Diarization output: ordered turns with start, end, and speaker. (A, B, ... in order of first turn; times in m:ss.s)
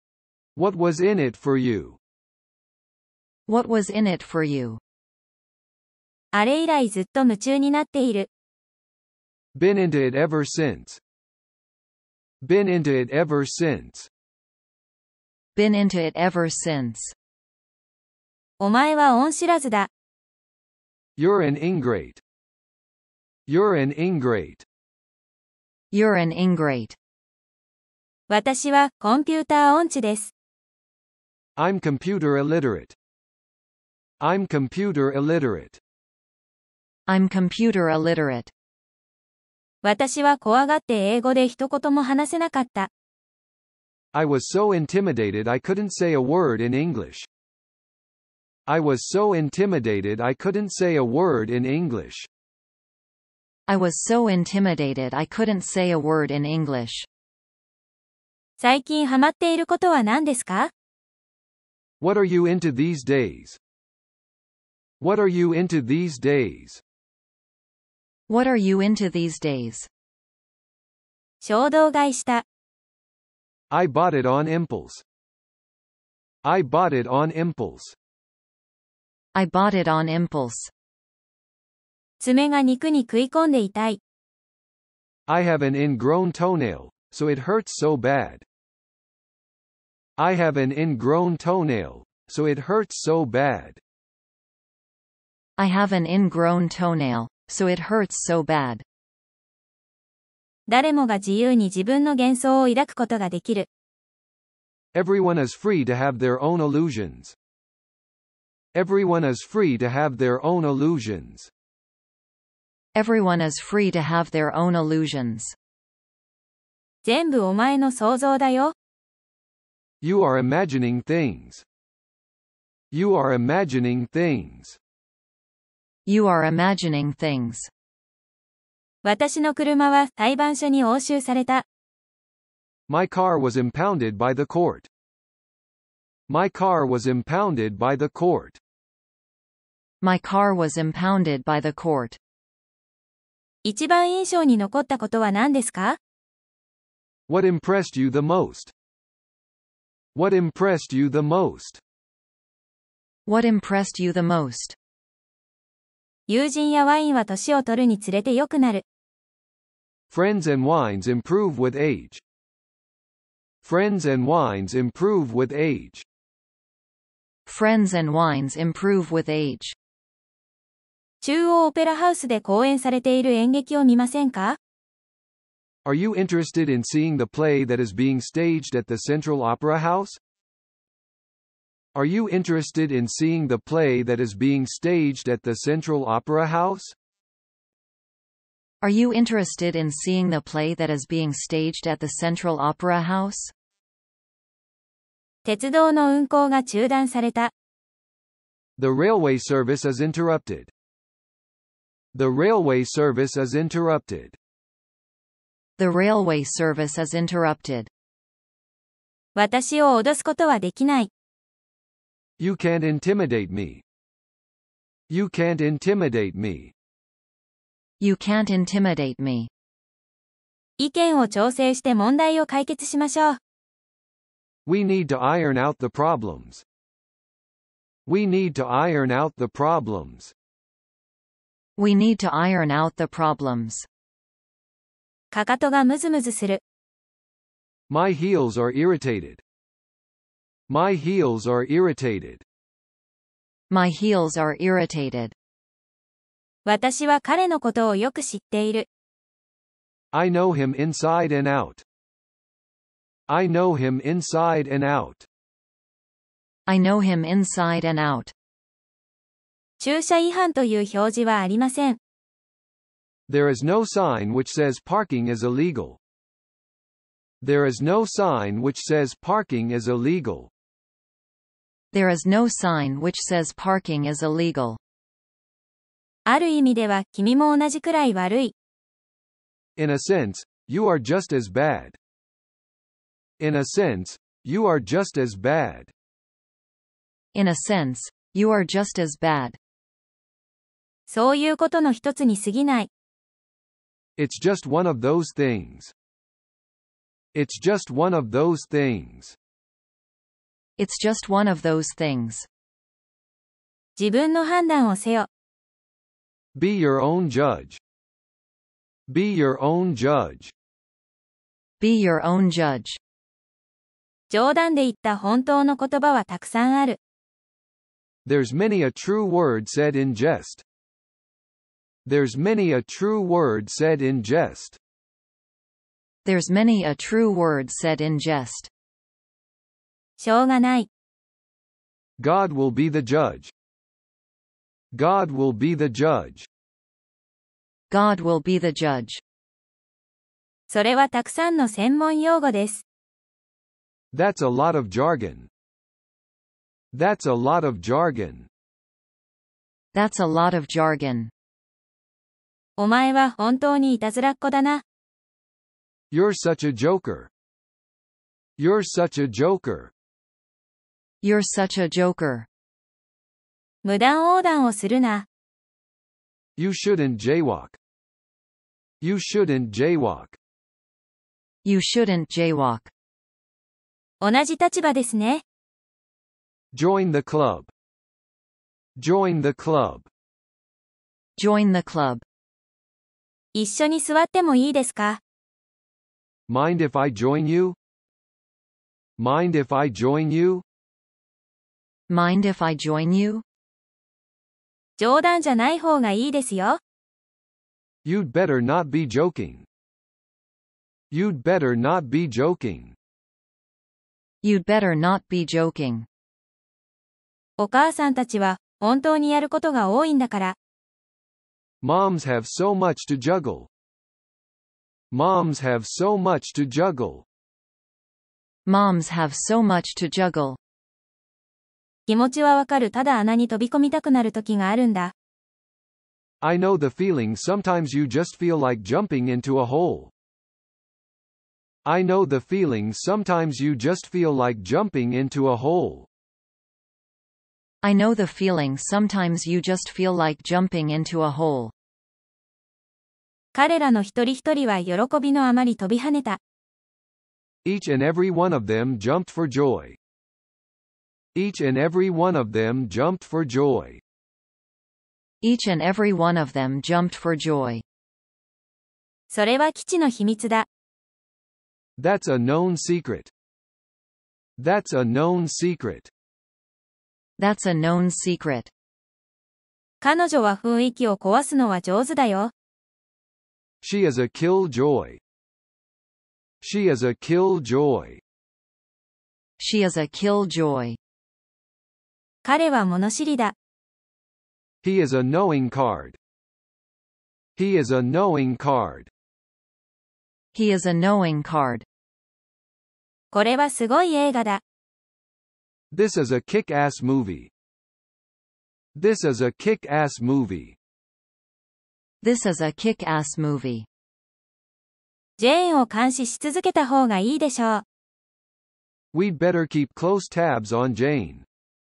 0:00.6-0:02.0 A
0:03.5-0:04.8 B
0:06.3-0:08.3 C
0:09.5-0:11.0 A
0:12.4-0:14.1 A
0:15.6-0:17.1 B
0:18.6-0:19.9 C
0:21.2-0:22.2 A
0:23.5-0:24.6 A
0:25.9-0:27.0 B
0:28.3-0:30.3 C
0:31.6-0:33.0 A
0:34.2-0:35.8 A
0:37.1-0:38.5 B
0:39.8-0:42.9 C
0:44.1-0:47.3 A
0:48.7-0:52.3 A
0:53.7-0:57.1 B
0:58.6-1:00.7 C
1:02.0-1:03.6 A
1:05.0-1:06.8 A
1:08.3-1:09.9 B
1:11.4-1:12.4 C
1:13.7-1:15.0 A
1:16.4-1:18.0 A
1:19.3-1:20.7 B
1:22.2-1:24.0 C
1:25.3-1:28.4 A
1:30.2-1:33.8 A
1:35.6-1:38.8 B
1:40.7-1:43.7 C
1:44.9-1:47.4 A
1:48.7-1:51.5 A
1:52.9-1:55.6 B
1:57.0-1:58.7 C
2:00.0-2:01.6 A
2:02.9-2:04.8 A
2:06.0-2:07.7 B
2:09.0-2:11.6 C
2:12.9-2:14.9 A
2:16.3-2:18.6 A
2:20.0-2:22.2 B
2:23.6-2:26.0 C
2:27.3-2:28.7 A
2:30.1-2:31.8 A
2:33.2-2:34.8 B
2:36.3-2:38.8 C
2:40.1-2:42.2 A
2:43.6-2:46.0 A
2:47.4-2:49.8 B
2:51.2-2:54.6 C
2:55.8-3:00.2 A
3:01.9-3:06.9 A
3:08.8-3:13.5 B
3:15.4-3:17.5 C
3:18.8-3:20.7 A
3:22.1-3:24.4 A
3:25.8-3:27.9 B
3:29.4-3:31.1 C
3:32.4-3:33.8 A
3:35.1-3:36.7 A
3:38.0-3:39.5 B
3:40.8-3:43.4 C
3:44.6-3:46.6 A
3:48.0-3:50.3 A
3:51.8-3:53.9 B
3:55.3-3:56.6 C
3:57.9-3:59.4 A
4:00.7-4:02.4 A
4:03.7-4:05.3 B
4:06.6-4:08.8 C
4:10.1-4:11.8 A
4:13.3-4:15.3 A
4:16.7-4:18.3 B
4:19.8-4:22.0 C
4:23.3-4:26.0 A
4:27.4-4:30.5 A
4:31.9-4:34.8 B
4:36.3-4:38.5 C
4:39.8-4:42.0 A
4:43.4-4:45.9 A
4:47.3-4:49.6 B
4:51.1-4:52.9 C
4:54.2-4:55.9 A
4:57.3-4:59.4 A
5:00.8-5:02.5 B
5:04.0-5:05.3 C
5:06.5-5:07.8 A
5:09.1-5:10.5 A
5:11.8-5:13.0 B
5:14.3-5:17.0 C
5:18.2-5:20.6 A
5:22.0-5:24.8 A
5:26.2-5:28.7 B
5:30.2-5:30.9 C
5:32.2-5:33.5 A
5:34.9-5:36.5 A
5:37.9-5:39.2 B
5:40.7-5:42.8 C
5:44.1-5:45.5 A
5:46.9-5:48.5 A
5:49.9-5:51.3 B
5:52.8-5:54.8 C
5:56.1-5:57.3 A
5:58.6-5:59.9 A
6:01.2-6:02.5 B
6:03.8-6:05.2 C
6:06.6-6:07.8 A
6:09.0-6:10.4 A
6:11.6-6:12.9 B
6:14.2-6:15.4 C
6:16.7-6:17.7 A
6:19.0-6:20.1 A
6:21.4-6:22.2 B
6:23.5-6:25.2 C
6:26.5-6:27.8 A
6:29.2-6:30.6 A
6:32.1-6:33.4 B
6:35.0-6:36.8 C
6:38.0-6:39.7 A
6:41.1-6:43.0 A
6:44.4-6:46.1 B
6:47.6-6:50.6 C
6:51.8-6:53.7 A
6:55.1-6:57.2 A
6:58.6-7:00.6 B
7:02.1-7:05.1 C
7:06.4-7:10.1 A
7:11.8-7:16.1 A
7:17.8-7:21.7 B
7:23.5-7:26.4 C
7:27.6-7:30.0 A
7:31.3-7:34.0 A
7:35.4-7:37.8 B
7:39.3-7:40.6 C
7:42.0-7:43.3 A
7:44.6-7:46.1 A
7:47.4-7:48.7 B
7:50.0-7:52.5 C
7:53.8-7:55.2 A
7:56.6-7:58.2 A
7:59.6-8:01.0 B
8:02.4-8:03.5 C
8:04.8-8:06.2 A
8:07.6-8:09.1 A
8:10.5-8:11.8 B
8:13.3-8:14.6 C
8:15.9-8:17.5 A
8:18.9-8:20.8 A
8:22.2-8:23.9 B
8:25.4-8:27.8 C
8:29.1-8:31.4 A